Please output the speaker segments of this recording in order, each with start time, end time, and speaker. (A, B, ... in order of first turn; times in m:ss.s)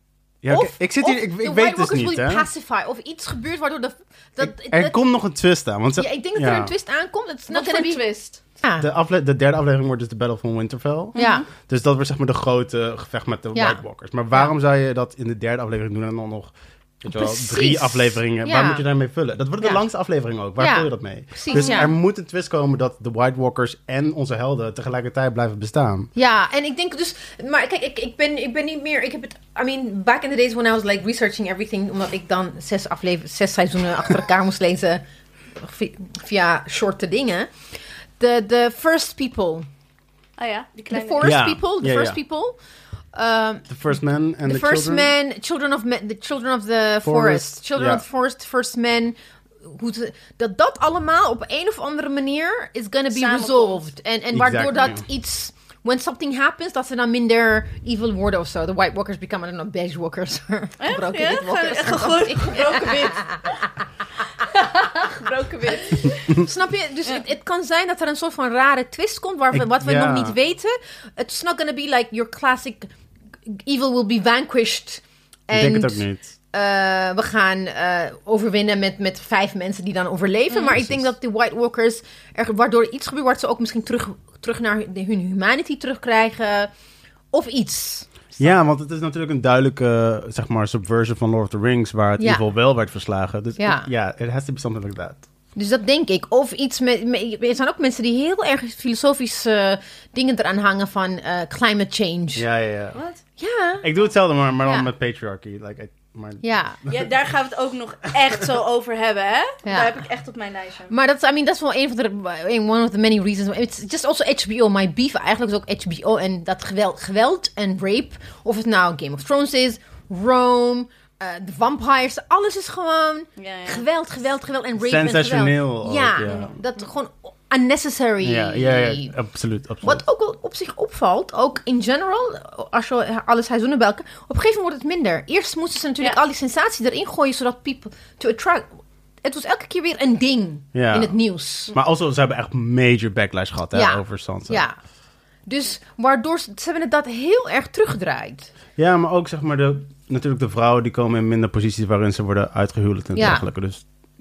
0:00.4-0:02.5 A
0:00.5-0:05.0 B
0:04.4-0:06.7 A
0:06.0-0:08.0 B
0:07.5-0:08.4 C
0:08.6-0:08.9 B
0:08.8-0:26.1 A
0:11.2-0:11.4 C
0:11.2-0:11.5 B
0:13.5-0:13.8 B
0:17.1-0:18.8 B
0:20.6-0:21.9 B
0:21.5-0:21.9 C
0:26.2-0:35.0 B
0:35.6-0:37.5 B
0:38.2-0:39.7 B
0:40.4-0:41.4 C
0:40.9-0:42.6 B
0:41.2-0:42.2 A
0:43.1-0:43.7 B
0:43.7-0:45.1 A
0:44.4-1:03.6 B
0:47.0-0:48.0 A
0:53.1-0:53.9 C
0:54.3-0:55.0 A
1:00.8-1:03.7 C
1:04.4-1:06.4 C
1:05.7-1:12.9 B
1:09.5-1:10.4 A
1:13.5-1:26.7 B
1:15.5-1:16.3 A
1:20.5-1:20.8 C
1:20.8-1:21.1 A
1:27.3-1:28.5 B
1:28.4-1:35.2 A
1:33.6-1:33.9 B
1:35.6-1:42.4 B
1:42.4-1:43.0 A
1:43.0-1:43.2 C
1:43.4-1:43.9 B
1:43.8-1:47.1 A
1:44.6-1:44.9 B
1:46.4-1:46.8 B
1:46.9-1:50.9 C
1:49.6-1:50.0 B
1:50.9-2:09.1 B
2:03.4-2:03.9 C
2:04.8-2:06.5 A
2:06.2-2:06.5 C
2:08.2-2:10.0 A
2:09.8-2:18.7 B
2:19.2-2:21.8 B
2:20.8-2:21.2 A
2:21.7-2:24.6 A
2:23.7-2:24.8 B
2:25.5-2:28.5 B
2:28.8-2:33.8 A
2:33.2-2:33.5 B